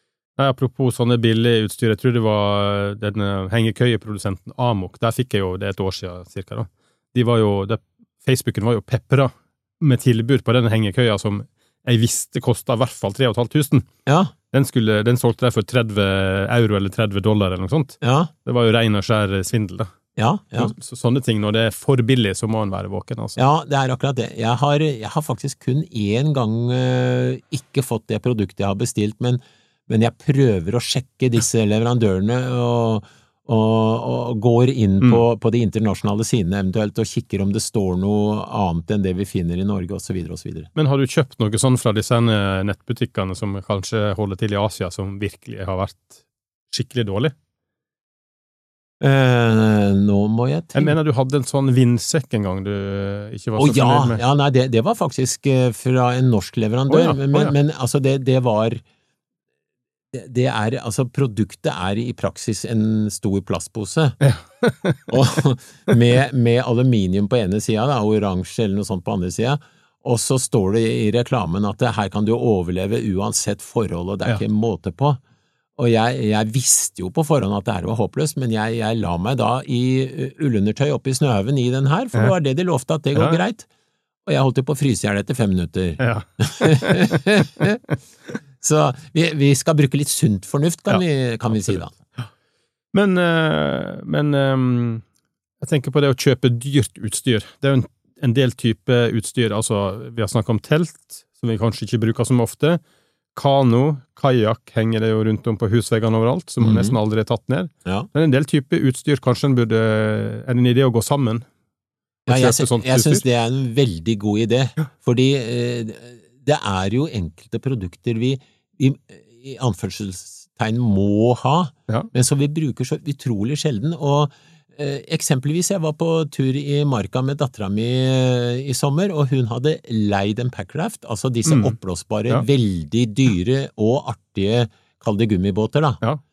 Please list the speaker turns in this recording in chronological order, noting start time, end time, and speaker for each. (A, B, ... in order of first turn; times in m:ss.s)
0:00.4-0:13.9 A
0:14.1-0:14.3 B
0:14.5-0:19.9 A
0:18.0-0:18.3 B
0:20.2-0:20.7 B
0:20.6-0:23.4 A
0:23.4-0:40.7 B
0:40.8-0:46.2 A
0:46.7-0:47.3 A
0:49.0-0:51.0 B
0:50.8-0:54.2 A
0:53.6-0:58.8 B
0:56.9-0:57.5 A
1:00.1-1:04.2 B
1:04.2-1:05.1 A
1:05.1-1:15.2 B
1:15.8-1:23.7 B
1:23.2-1:23.4 A
1:24.3-1:27.8 B
1:26.0-1:27.2 A
1:28.6-1:31.9 B
1:30.9-1:32.3 A
1:32.9-1:35.0 A
1:35.6-1:42.8 A
1:43.4-1:51.4 A
1:46.6-1:47.0 B
1:52.3-1:53.2 A
1:52.3-2:16.0 B
2:11.5-2:11.8 A